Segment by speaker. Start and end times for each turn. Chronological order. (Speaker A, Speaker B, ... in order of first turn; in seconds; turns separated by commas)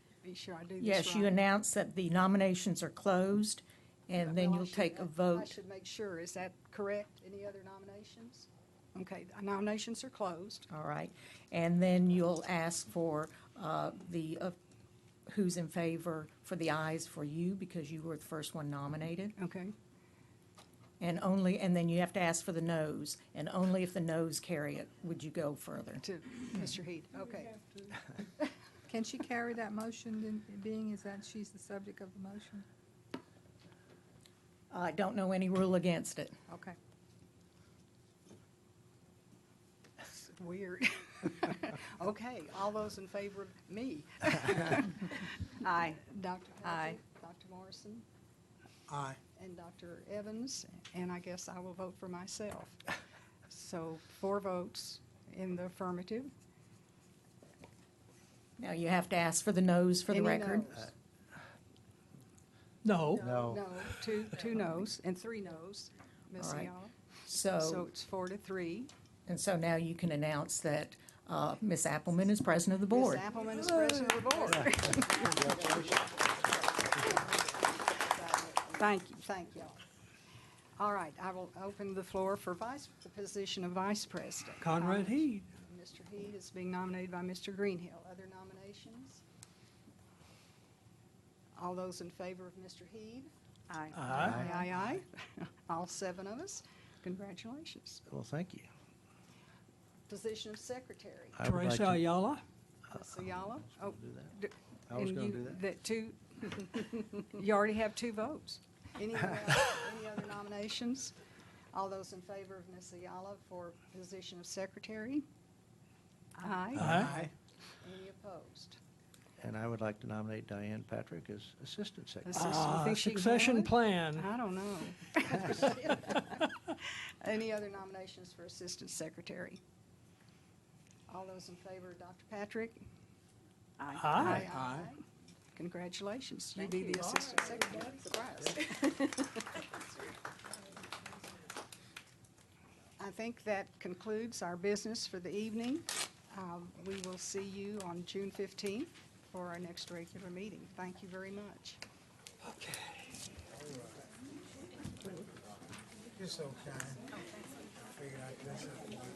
Speaker A: 0.2-1.4, Speaker B: 0.8-5.5, Speaker A: 4.2-10.7, Speaker B: 10.7-14.6, Speaker B: 15.3-19.4, Speaker A: 19.4-19.7, Speaker B: 21.0-26.0, Speaker A: 26.0-27.7, Speaker C: 28.9-32.6, Speaker B: 34.7-36.4, Speaker A: 36.5-36.8, Speaker A: 40.0-48.0, Speaker C: 46.6-47.0, Speaker A: 49.1-52.9, Speaker A: 53.5-56.3, Speaker B: 58.6-60.8, Speaker A: 60.1-60.9, Speaker D: 62.8-63.2, Speaker A: 63.1-66.9, Speaker E: 63.1-63.7, Speaker B: 66.4-66.7, Speaker B: 67.2-67.9, Speaker A: 67.5-68.9, Speaker B: 69.3-73.3, Speaker A: 72.9-75.8, Speaker E: 75.2-76.1, Speaker A: 76.8-79.8, Speaker A: 80.8-89.2, Speaker D: 84.6-85.4, Speaker A: 91.5-98.0, Speaker D: 93.9-94.4, Speaker E: 94.1-94.5, Speaker C: 94.3-94.7, Speaker E: 98.1-98.7, Speaker A: 100.1-101.4, Speaker E: 101.3-102.1, Speaker D: 101.4-102.4, Speaker A: 102.9-111.1, Speaker E: 103.5-104.3, Speaker E: 104.9-105.6, Speaker A: 111.7-115.2, Speaker A: 116.4-117.2, Speaker E: 116.7-117.3, Speaker D: 116.7-117.2, Speaker A: 117.8-118.8, Speaker E: 119.4-122.6, Speaker A: 122.2-129.6, Speaker D: 122.3-124.3, Speaker A: 131.1-132.9, Speaker A: 133.8-135.0, Speaker D: 133.9-134.5, Speaker A: 135.5-139.8, Speaker A: 143.0-151.8, Speaker D: 152.4-153.1